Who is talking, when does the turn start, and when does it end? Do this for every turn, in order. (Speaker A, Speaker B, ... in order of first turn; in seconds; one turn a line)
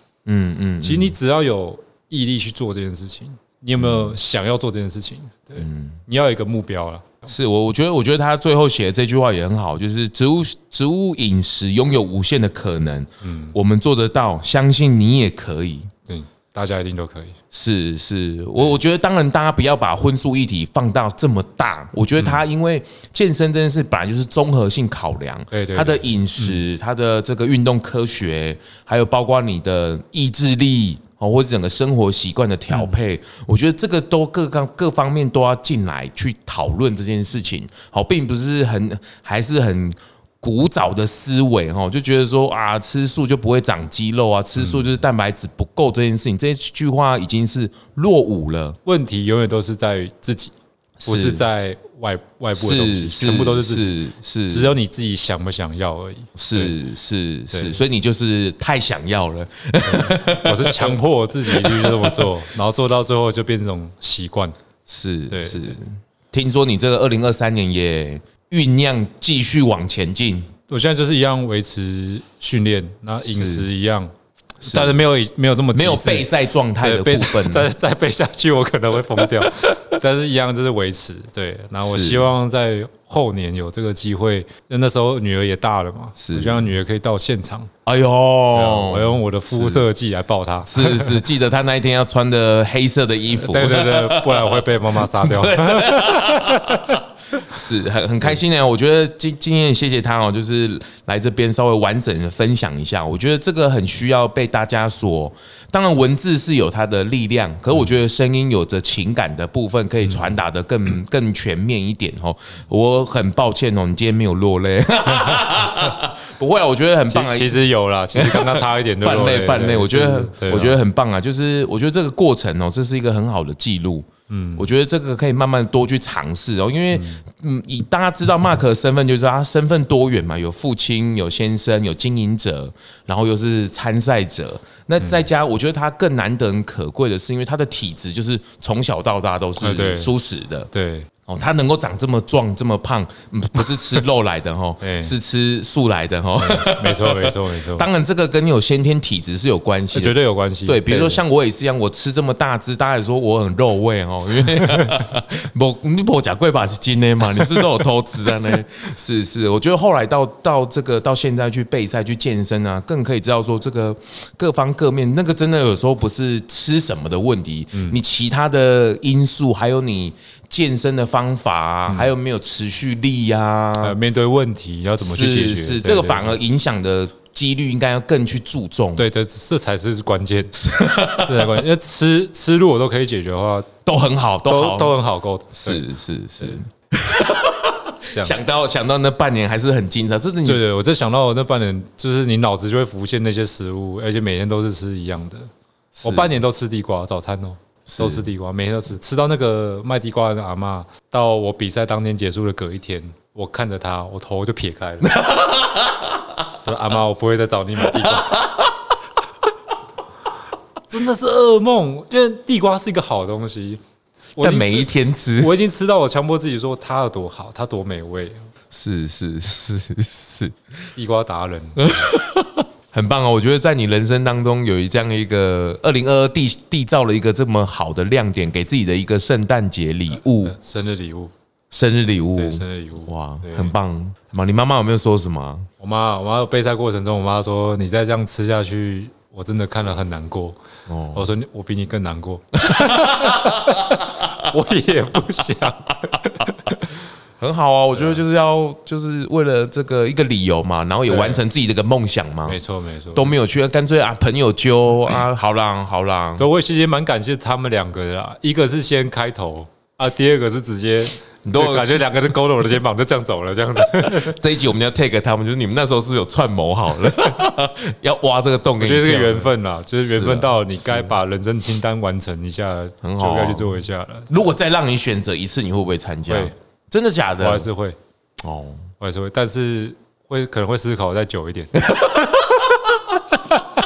Speaker A: 0.3-1.1
Speaker B: 0.8-7.3
Speaker A: 3.8-4.1
Speaker A: 5.6-6.0
Speaker A: 7.3-15.9
Speaker B: 13.2-13.6
Speaker B: 16.1-17.4
Speaker A: 17.5-48.8
Speaker B: 22.2-22.4
Speaker B: 25.5-26.6
Speaker B: 44.6-44.9
Speaker B: 48.9-50.5
Speaker A: 51.0-51.4
Speaker B: 51.1-54.0
Speaker A: 52.5-54.7
Speaker B: 54.5-56.7
Speaker A: 56.4-62.3
Speaker B: 57.5-57.8
Speaker B: 59.8-64.6
Speaker A: 64.9-70.5
Speaker B: 65.3-65.8
Speaker B: 70.7-76.3
Speaker A: 73.2-73.7
Speaker A: 74.6-75.0
Speaker A: 75.7-77.7
Speaker B: 76.8-87.7
Speaker A: 81.8-82.2
Speaker A: 86.2-86.7
Speaker A: 87.9-89.9
Speaker B: 88.5-91.2
Speaker A: 90.7-117.6
Speaker B: 93.3-97.0
Speaker B: 117.1-120.8
Speaker A: 118.1-140.7
Speaker B: 124.3-124.7
Speaker B: 126.9-127.2
Speaker B: 135.0-135.3
Speaker B: 139.6-140.1
Speaker B: 140.7-141.1
Speaker A: 141.3-150.2
Speaker B: 144.8-145.1
Speaker B: 146.4-147.9
Speaker B: 149.9-151.2
Speaker A: 150.7-174.0
Speaker B: 167.7-168.0
Speaker B: 173.8-176.4
Speaker A: 175.0-179.1
Speaker B: 179.0-180.6
Speaker A: 180.6-181.6
Speaker B: 181.2-183.7
Speaker A: 183.9-184.9
Speaker B: 184.5-185.8
Speaker A: 185.5-190.6
Speaker B: 188.1-188.4
Speaker B: 190.4-195.5
Speaker A: 196.0-196.4
Speaker B: 196.0-205.2
Speaker A: 197.9-198.2
Speaker A: 205.0-206.2
Speaker B: 206.6-208.5
Speaker A: 208.0-208.7
Speaker B: 210.9-213.8
Speaker B: 214.4-218.4
Speaker A: 214.4-215.6
Speaker A: 218.7-220.9
Speaker B: 221.0-222.1
Speaker A: 221.8-230.6
Speaker B: 230.4-231.3
Speaker A: 231.7-235.7
Speaker B: 232.3-233.7
Speaker B: 235.8-240.6
Speaker A: 240.9-241.3
Speaker B: 241.1-246.7
Speaker A: 242.6-244.5
Speaker A: 246.1-246.8
Speaker A: 247.4-252.6
Speaker B: 248.0-248.2
Speaker B: 251.1-251.4
Speaker B: 252.5-253.3
Speaker A: 253.1-256.5
Speaker B: 256.4-264.4
Speaker A: 261.4-262.1
Speaker A: 264.0-271.1
Speaker B: 268.8-274.3
Speaker A: 273.0-273.7
Speaker A: 274.3-277.7
Speaker B: 276.3-276.5
Speaker B: 277.4-278.0
Speaker A: 278.4-278.9
Speaker B: 279.0-281.9
Speaker A: 281.8-283.6